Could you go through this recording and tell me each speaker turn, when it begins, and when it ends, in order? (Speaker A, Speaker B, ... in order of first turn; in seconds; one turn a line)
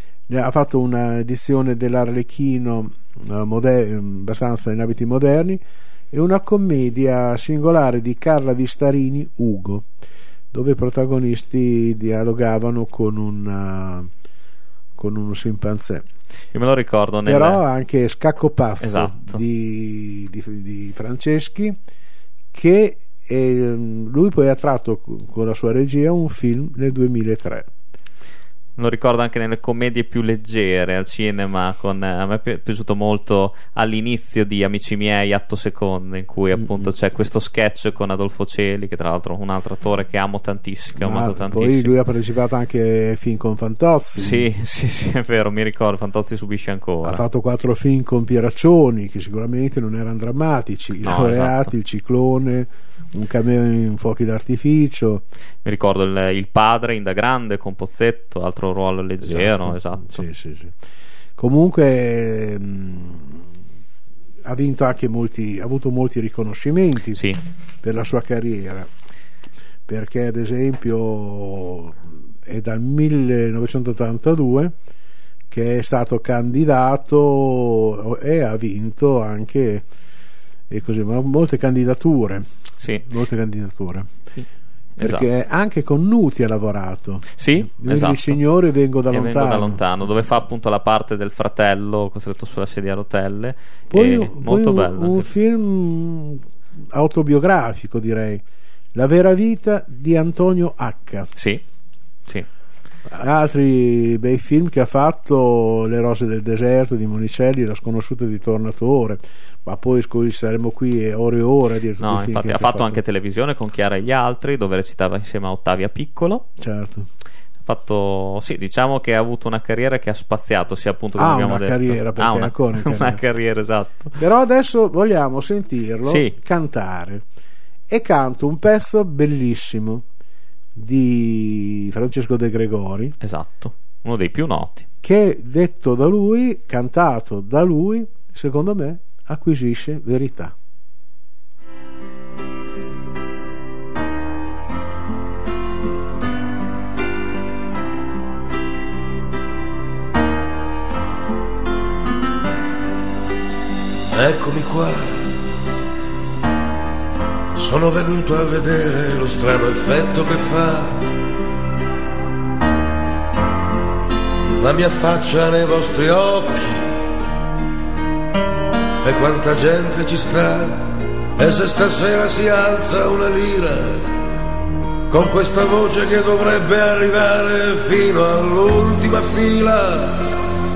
Speaker A: 0.3-9.9
Speaker A: 10.5-14.1
Speaker A: 14.9-16.0
Speaker B: 16.5-17.6
Speaker A: 17.2-21.8
Speaker B: 18.8-19.4
Speaker A: 22.5-27.7
Speaker B: 28.8-42.0
Speaker A: 36.5-36.9
Speaker A: 41.0-44.5
Speaker B: 44.2-47.2
Speaker A: 47.0-55.2
Speaker B: 51.0-51.7
Speaker B: 55.6-60.2
Speaker A: 59.2-60.8
Speaker A: 61.4-63.5
Speaker A: 64.4-67.2
Speaker B: 67.2-67.4
Speaker A: 67.8-68.9
Speaker A: 69.9-74.7
Speaker A: 75.5-79.8
Speaker A: 80.7-82.5
Speaker A: 83.0-84.1
Speaker B: 85.0-85.3
Speaker A: 85.0-89.8
Speaker B: 87.4-88.4
Speaker B: 89.1-95.3
Speaker A: 93.9-98.4
Speaker A: 98.9-101.3
Speaker B: 101.3-101.6
Speaker A: 103.1-113.0
Speaker B: 112.0-116.4
Speaker A: 116.6-117.1
Speaker B: 117.6-124.2
Speaker A: 121.2-123.2
Speaker A: 124.2-127.2
Speaker B: 126.0-126.3
Speaker A: 127.9-130.0
Speaker A: 130.7-133.1
Speaker B: 133.2-134.9
Speaker A: 135.0-140.5
Speaker C: 154.1-155.3
Speaker C: 157.5-161.1
Speaker C: 164.6-167.0
Speaker C: 169.0-174.1
Speaker C: 175.1-180.4